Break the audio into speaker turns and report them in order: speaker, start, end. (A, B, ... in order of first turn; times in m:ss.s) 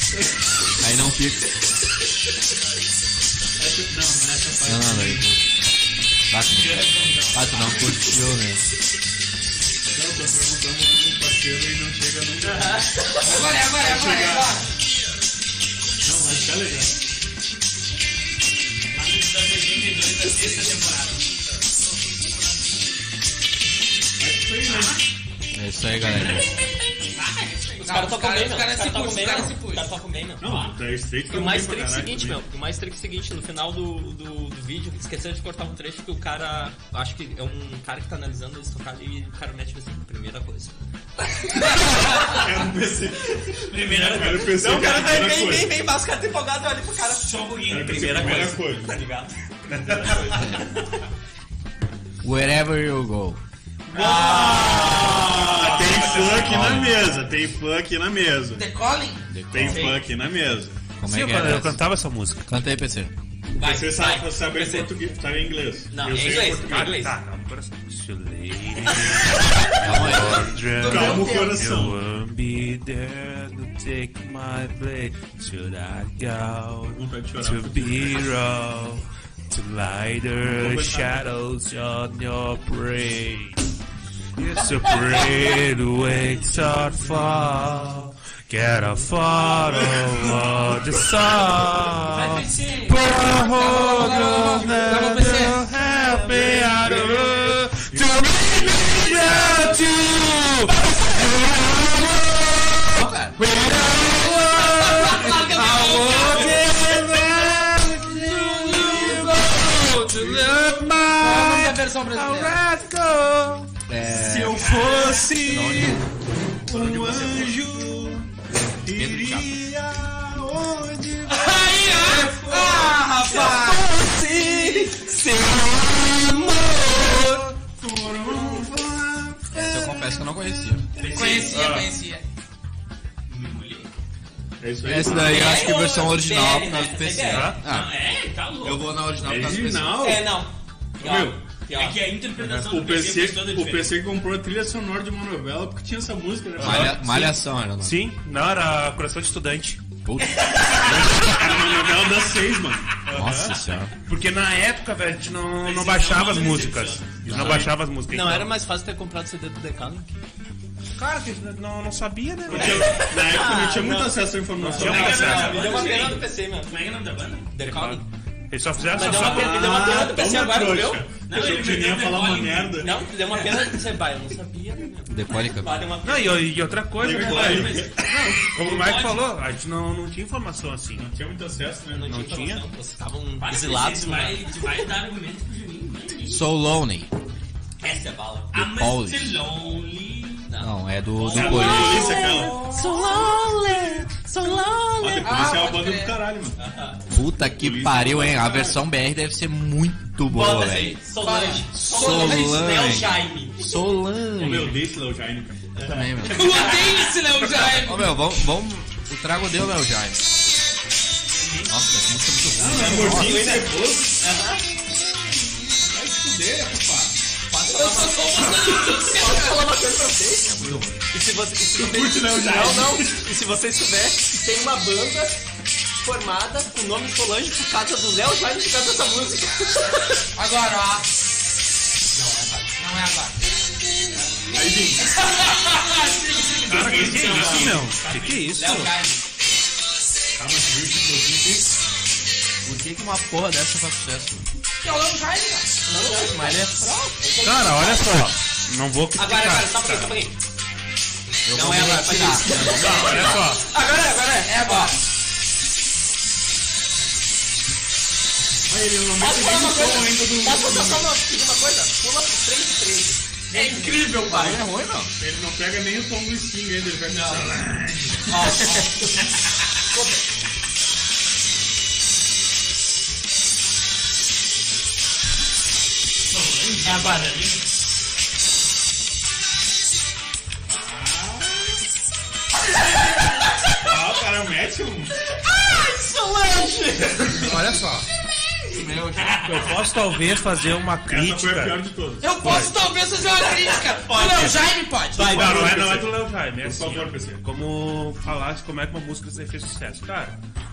0:00.8-0:01.6 A
0:03.6-0:05.3 B
0:04.6-0:05.4 A
0:06.3-0:08.7 A
0:06.5-0:08.2 C
0:09.9-0:14.6 B
0:12.4-0:13.5 D
0:13.2-0:14.7 E
0:16.0-0:17.0 B
0:18.9-0:21.3 C
0:24.2-0:25.0 B
0:25.5-0:26.5 A
0:26.0-0:27.9 C
0:27.0-0:42.4 D
0:27.8-0:29.9 E
0:30.4-0:32.4 B
0:41.6-0:45.8 B
0:43.7-0:44.8 C
0:44.2-0:50.8 D
0:47.2-0:48.5 C
0:47.7-0:49.0 B
0:49.7-0:50.5 B
0:52.2-0:53.4 A
0:53.9-0:58.7 B
0:53.9-0:56.7 D
0:55.6-0:56.2 C
0:56.3-0:57.1 A
0:58.6-0:59.3 E
0:59.3-1:00.0 A
0:59.5-1:00.8 B
0:59.7-1:00.0 D
1:01.0-1:01.8 A
1:01.0-1:02.5 F
1:02.5-1:03.1 A
1:03.5-1:04.9 D
1:03.6-1:07.0 B
1:05.9-1:07.2 D
1:06.6-1:23.6 F
1:09.8-1:10.6 A
1:10.7-1:11.7 E
1:10.8-1:12.0 B
1:16.9-1:18.4 B
1:20.4-1:21.3 B
1:24.4-1:42.8 F
1:26.5-1:27.6 B
1:29.3-1:31.5 B
1:32.1-1:33.9 C
1:33.5-1:35.6 E
1:35.8-1:39.8 B
1:39.3-1:39.6 D
1:42.9-1:43.4 A
1:43.4-1:53.7 F
1:44.2-1:46.6 E
1:45.0-1:46.7 D
1:48.0-1:49.6 E
1:50.0-1:50.9 B
1:51.2-1:52.6 E
1:53.9-1:56.0 A
1:54.5-1:56.0 F
1:56.6-2:01.7 B
1:56.8-1:57.4 A
1:58.9-1:59.5 A
2:01.3-2:03.8 E
2:01.8-2:07.6 D
2:07.6-2:10.0 B
2:08.3-2:08.7 D
2:09.5-2:10.9 A
2:11.0-2:11.8 C
2:11.1-2:12.2 E
2:11.5-2:11.9 F
2:13.3-2:13.9 C
2:14.6-2:15.8 B
2:14.8-2:17.9 A
2:15.2-2:17.6 D
2:17.2-2:17.6 F
2:17.6-2:18.9 C
2:18.6-2:20.1 A
2:19.2-2:20.4 B
2:20.0-2:22.0 D
2:21.0-2:21.4 B
2:21.7-2:24.0 C
2:22.4-2:27.3 B
2:26.6-2:28.0 A
2:26.6-2:29.8 F
2:30.0-2:31.1 A
2:30.8-2:33.0 B
2:33.1-2:38.6 F
2:33.1-2:34.0 A
2:35.6-2:37.3 C
2:37.2-2:37.8 B
2:37.3-2:37.6 A
2:38.0-2:40.1 D
2:41.0-2:43.0 F
2:42.5-2:45.8 B
2:42.5-2:46.8 D
2:44.6-2:45.8 F
2:44.8-2:47.5 C
2:47.5-2:48.1 D
2:47.6-2:49.6 F
2:48.8-2:51.4 D
2:49.0-2:53.0 B
2:51.3-2:53.8 C
2:52.8-2:56.7 D
2:55.1-2:55.9 A
2:56.0-3:01.1 F
2:57.0-2:58.4 B
2:57.0-2:59.2 C
3:01.0-3:02.2 B
3:01.9-3:04.6 D
3:02.1-3:02.6 F
3:03.4-3:06.4 C
3:06.3-3:07.1 A
3:07.8-3:08.6 D
3:08.5-3:10.5 C
3:08.6-3:09.4 A
3:10.5-3:15.4 D
3:10.6-3:12.2 A
3:11.3-3:12.6 B
3:11.8-3:13.2 E
3:15.0-3:16.6 B
3:15.2-3:16.2 E
3:16.6-3:17.0 D
3:17.1-3:21.0 A
3:17.4-3:18.8 B
3:20.2-3:23.8 D
3:21.2-3:22.2 E
3:21.7-3:24.9 A
3:24.4-3:26.2 B
3:25.8-3:27.2 D
3:25.8-3:26.7 A
3:26.3-3:28.1 E
3:27.5-3:30.2 A
3:31.3-3:31.9 C
3:31.7-3:33.5 A
3:32.6-3:34.2 B
3:32.6-3:34.7 D
3:36.0-3:37.1 B
3:37.5-3:40.5 D
3:37.7-3:39.5 E
3:40.4-3:41.0 A
3:40.6-3:40.9 B
3:41.1-3:45.4 D
3:41.7-3:43.3 B
3:46.0-3:50.3 D
3:50.3-3:51.1 E
3:52.1-3:52.9 D
3:52.8-3:54.2 E
3:53.9-3:54.6 D
3:54.5-3:55.2 B
3:55.0-3:57.0 E
3:56.7-3:59.0 F
3:56.7-3:58.0 B
3:56.8-3:59.2 D
3:57.2-3:57.5 C
4:00.4-4:01.7 B
4:02.6-4:04.5 A
4:04.8-4:05.8 E
4:05.9-4:08.2 D
4:06.1-4:06.9 A
4:07.4-4:10.2 F
4:09.2-4:10.4 D
4:11.4-4:13.3 A
4:11.5-4:15.0 D
4:12.7-4:13.7 F
4:14.4-4:15.0 E
4:18.7-4:21.1 B
4:19.1-4:24.6 D
4:23.6-4:23.8 E
4:24.2-4:25.1 A
4:25.2-4:28.7 B
4:27.1-4:27.6 D
4:28.3-4:30.2 D
4:36.3-4:37.6 C
4:36.8-4:37.4 D
4:40.7-4:41.6 B
4:43.8-4:45.1 B
4:45.3-4:47.6 D
4:47.5-4:48.0 F
4:48.7-4:49.6 A
4:49.2-4:49.5 C
4:49.4-4:52.8 F
4:51.1-4:52.4 B
4:52.2-4:55.3 E
4:53.3-4:55.6 D
4:55.2-4:57.4 B
4:55.2-5:00.4 F